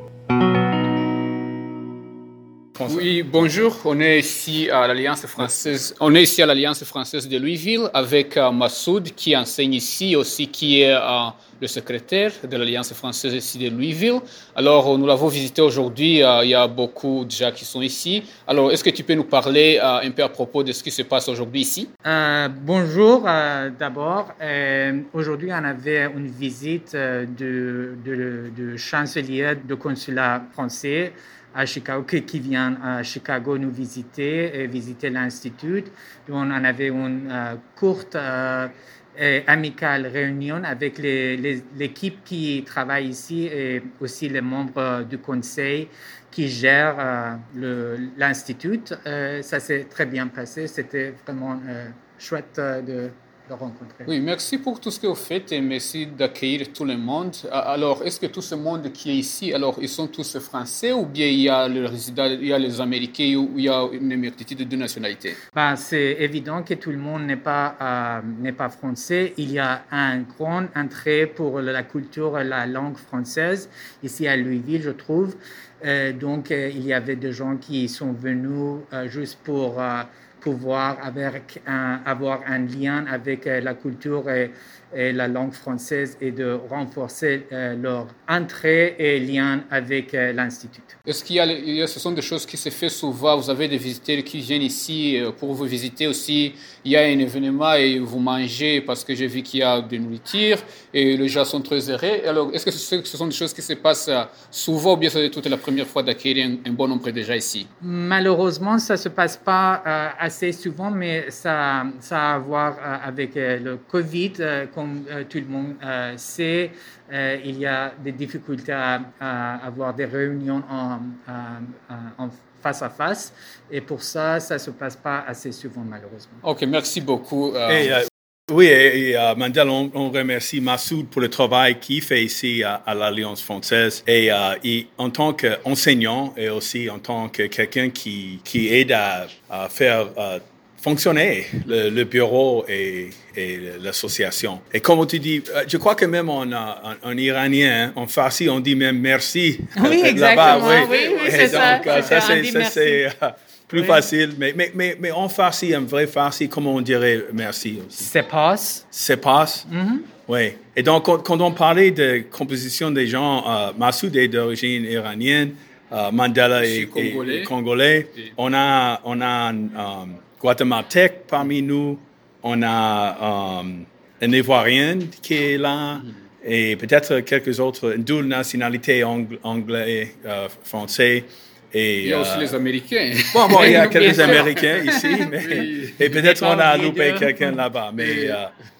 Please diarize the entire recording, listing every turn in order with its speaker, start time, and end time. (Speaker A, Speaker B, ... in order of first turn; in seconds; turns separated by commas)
Speaker A: 2.8-3.5, Speaker B: 2.9-21.9, Speaker C: 22.0-54.1, Speaker B: 54.0-65.4, Speaker C: 65.5-90.9, Speaker B: 91.0-107.7, Speaker C: 107.8-126.4, Speaker B: 126.4-128.0, Speaker A: 127.7-158.1, Speaker C: 149.8-153.0, Speaker C: 153.7-154.1, Speaker C: 158.0-158.8, Speaker A: 158.9-159.6, Speaker C: 159.7-160.1, Speaker A: 160.3-182.6, Speaker B: 166.6-167.5, Speaker B: 182.0-186.2, Speaker A: 183.3-188.5, Speaker C: 183.5-185.1, Speaker C: 185.6-187.3, Speaker B: 188.0-188.4